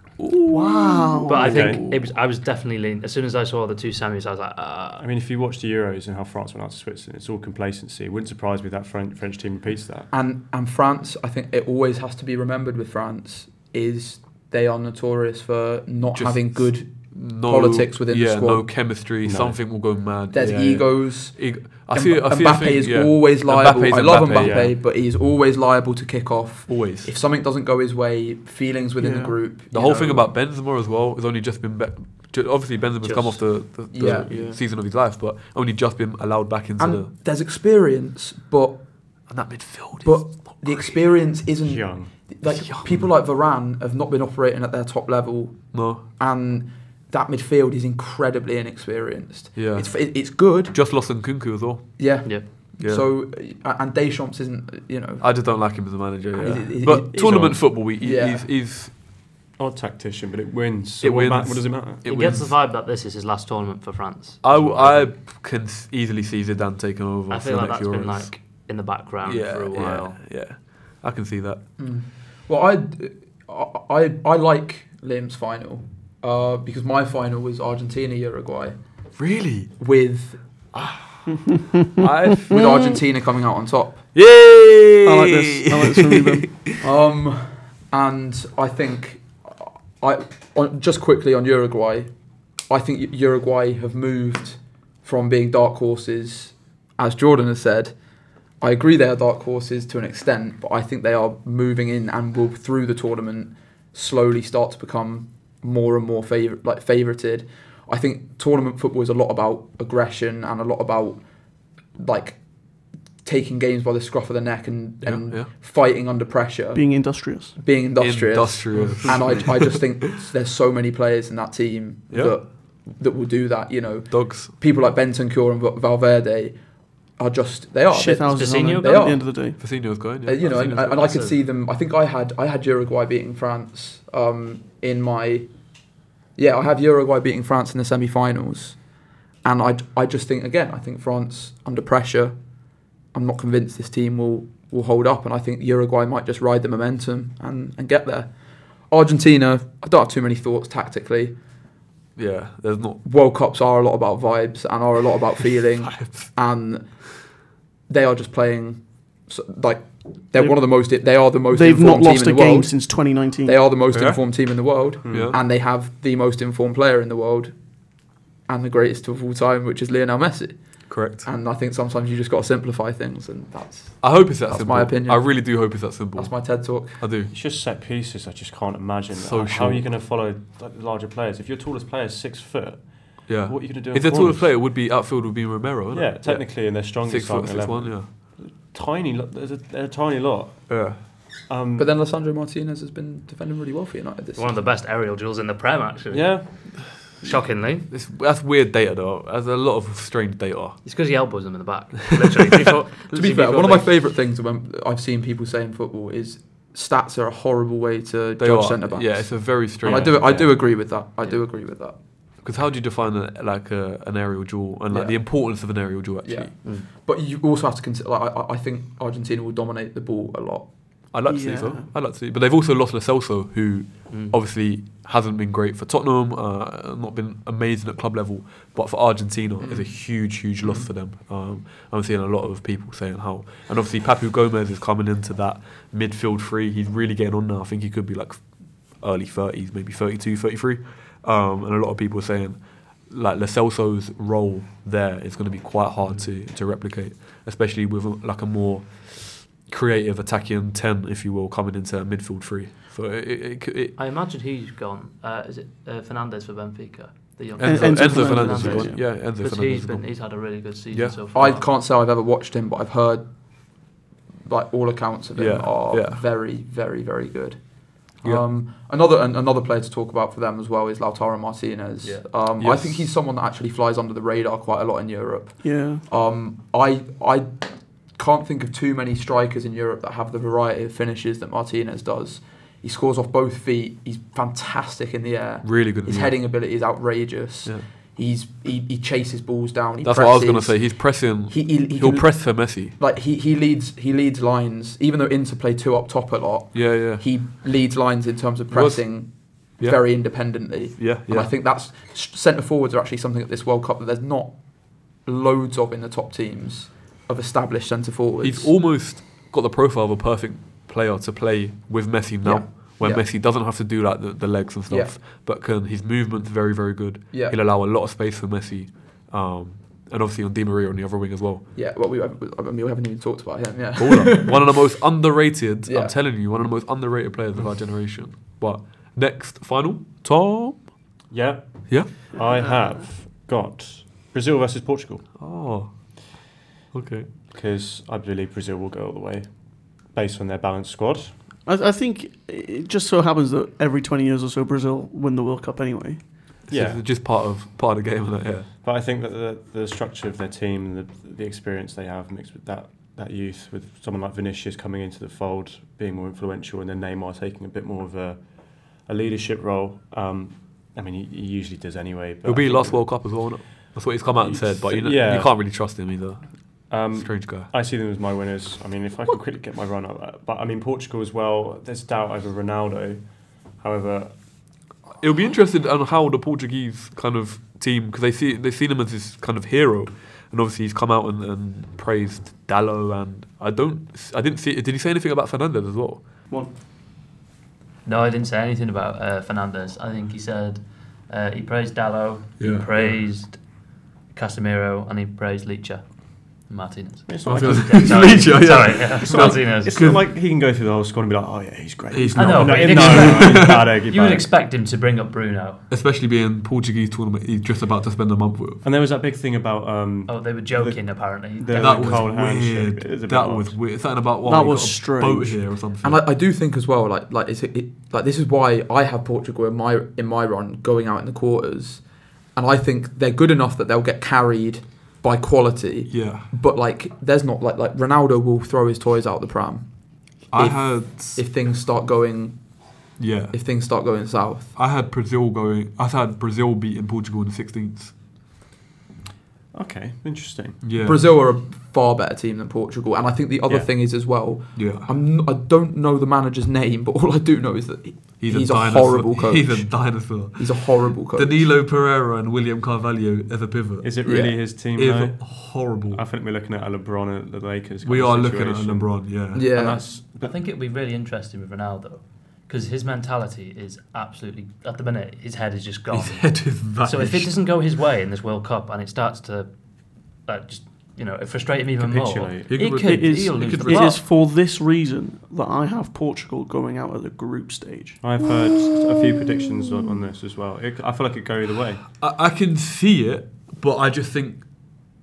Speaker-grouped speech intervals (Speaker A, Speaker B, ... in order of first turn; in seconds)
Speaker A: 0.2-2.0, 16.1-24.7, 26.7-27.1, 29.7-37.1, 39.3-40.9, 42.4-42.9, 45.7-46.0, 49.5-53.0, 55.2-58.9, 61.0-62.5, 64.4-68.3, 69.2-71.6, 79.2-79.7, 80.7-82.6, 84.1-86.8, 115.0-115.5, 118.0-119.9, 122.1-122.3, 124.1-124.5, 129.6-130.7, 152.2-153.0, 155.8-156.3, 165.1-165.4, 170.9-171.2, 174.0-177.3, 179.1-179.8, 183.3-188.1, 190.7-191.0, 197.9-200.8, 202.1-202.5, 208.4-210.5, 212.4-216.5, 221.1-253.9, 257.6-260.2, 260.9-261.2, 265.4-266.2, 272.6-273.0, 285.6-286.4, 290.0-292.9, 296.7-297.2, 298.7-299.2, 301.0-301.5, 308.4-321.6, 324.0-330.9, 335.4-335.9, 336.9-337.3, 346.7-348.7, 362.4-367.7, 375.2-386.2, 392.6-392.9, 397.4-400.2, 402.1-403.9, 405.9-408.8, 411.7-416.2, 426.1-426.5, 430.5-431.4, 433.2-433.6, 434.8-438.1, 440.8-441.2, 444.7-445.1, 448.4-454.3, 454.9-456.2, 458.0-459.6, 466.1-467.6, 472.7-474.2, 482.2-484.6
Speaker B: 0.5-1.6, 29.0-29.3, 85.0-86.5, 116.7-117.5, 127.9-129.6, 161.5-163.6, 221.3-221.9, 257.6-259.0, 275.6-276.0, 341.6-346.2, 414.4-415.6, 473.0-478.2
Speaker C: 1.2-5.0, 33.0-33.5, 34.1-34.6, 62.0-64.4, 67.3-70.2, 128.3-129.2, 130.4-131.4, 194.3-197.9, 200.8-203.9, 224.1-224.3, 254.0-261.7, 388.0-393.6, 394.3-396.0, 396.6-400.0, 402.3-405.8, 410.2-412.3, 460.4-469.7, 470.4-474.2
Speaker D: 1.4-1.8, 5.0-10.1, 19.2-19.6, 24.3-24.7, 41.6-42.1, 57.1-57.6, 59.6-62.4, 64.5-65.0, 118.7-119.1, 165.0-165.3, 177.3-184.5, 185.9-190.8, 191.5-191.9, 196.1-196.5, 331.3-335.3, 337.5-341.3, 346.7-347.0, 348.8-363.7, 364.4-365.7, 366.9-374.3, 397.3-404.5, 408.8-413.8, 439.7-440.8, 454.0-460.6, 472.0-472.9, 478.2-482.0
Speaker E: 10.1-18.7, 20.3-30.3, 33.9-34.4, 36.8-38.8, 40.0-50.7, 52.0-55.3, 56.4-58.5, 71.8-78.8, 79.8-80.4, 82.5-84.0, 86.8-92.1, 92.7-97.9, 98.6-111.2, 112.0-112.4, 113.2-126.6, 127.2-129.6, 130.2-135.5, 136.3-138.8, 139.4-142.3, 143.1-148.3, 148.9-151.3, 153.0-156.9, 157.9-162.9, 163.4-167.5, 168.5-170.6, 171.1-175.5, 176.2-177.0, 191.8-194.6, 203.1-211.9, 214.9-215.2, 216.2-220.7, 261.3-263.3, 264.4-267.6, 268.1-277.6, 278.1-304.6, 305.2-308.7, 312.4-313.2, 314.9-315.2, 317.3-317.6, 321.7-324.7, 325.9-326.1, 416.0-422.0, 422.5-429.9, 430.5-432.6, 433.5-434.7, 441.0-451.7, 454.2-454.5, 459.5-460.0